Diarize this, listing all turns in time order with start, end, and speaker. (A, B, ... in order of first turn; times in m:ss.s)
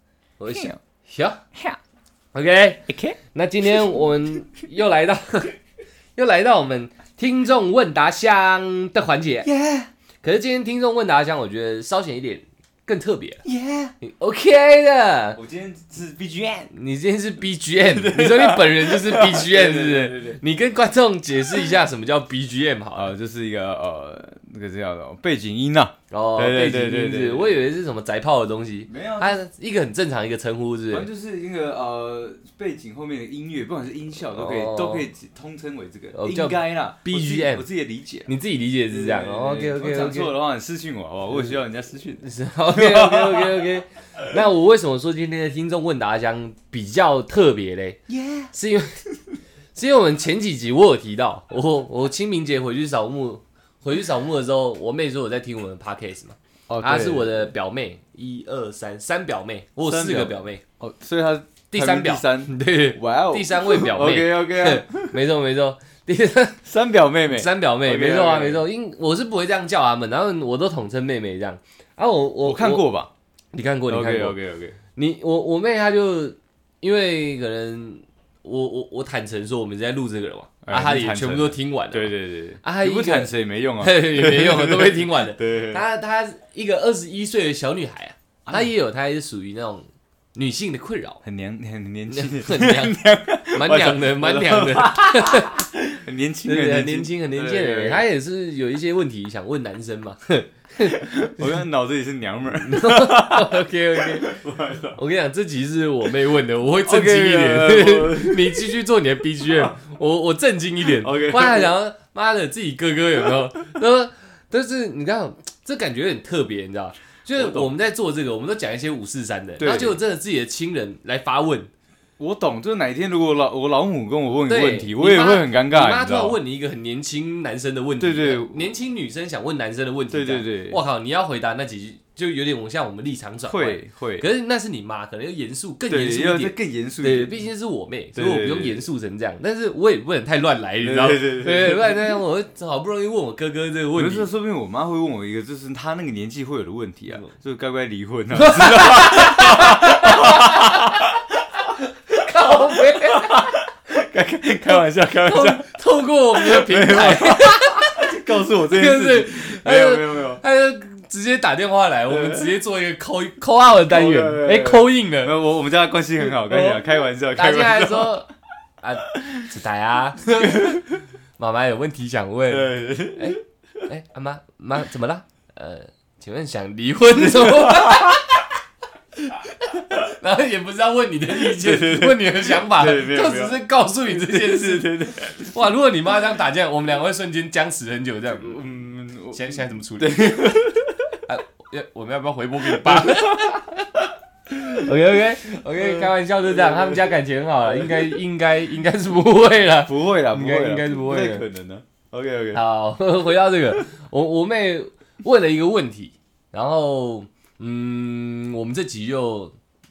0:00.4-0:01.4 A
0:00.5-0:00.8 B
0:02.3-0:05.6 A
0:02.9-0:03.2 B
0:06.2-0:09.5 A
0:09.4-0:09.9 B
0:10.2-0:13.4 A
0:13.4-0:13.9 B
0:14.0-0:15.4 A
0:15.4-0:16.7 B
0:16.7-0:23.1 A
0:17.8-0:20.4 B
0:22.9-0:27.6 B
0:26.1-0:31.1 A
0:28.8-0:29.4 B
0:30.9-0:38.3 B
0:34.3-0:35.1 A
0:36.1-0:37.6 A
0:38.3-0:40.3 A
0:38.9-0:43.7 B
0:42.2-0:48.0 A
0:48.1-0:48.5 B
0:48.5-0:49.0 A
0:49.7-1:00.6 A
0:56.7-0:57.5 B
0:59.8-1:05.2 B
1:01.7-1:06.6 A
1:06.6-1:08.7 B
1:07.3-1:12.8 A
1:12.4-1:13.1 B
1:13.5-1:14.4 A
1:13.9-1:14.8 B
1:15.0-1:31.2 A
1:20.6-1:25.8 B
1:31.2-1:38.0 B
1:32.1-1:35.6 A
1:36.4-1:41.6 A
1:40.8-1:45.0 B
1:42.6-1:44.3 A
1:44.9-2:01.7 A
1:46.8-1:48.8 B
1:49.4-1:49.8 B
1:51.0-1:51.7 B
1:57.4-1:57.7 B
1:59.6-2:00.0 B
2:02.2-2:06.4 B
2:04.5-2:24.3 A
2:08.0-2:08.6 B
2:10.1-2:10.8 B
2:13.5-2:14.3 B
2:15.9-2:17.3 B
2:18.1-2:18.8 B
2:20.8-2:22.2 B
2:24.0-2:35.7 B
2:28.3-2:31.0 A
2:32.1-2:33.6 A
2:34.7-2:45.4 A
2:36.3-2:40.4 B
2:42.1-2:42.5 B
2:43.8-2:48.2 B
2:46.2-2:46.8 A
2:47.3-2:48.3 A
2:48.8-2:50.9 A
2:49.1-2:49.5 B
2:50.4-2:50.8 B
2:51.4-2:58.5 A
2:52.5-2:53.8 B
2:57.2-2:58.2 B
2:59.3-3:08.6 A
3:01.4-3:05.6 B
3:08.3-3:11.2 B
3:09.3-3:10.6 A
3:11.3-3:13.7 A
3:12.6-3:17.1 B
3:14.7-3:21.5 A
3:17.6-3:18.2 B
3:19.9-3:22.6 B
3:22.5-3:29.5 A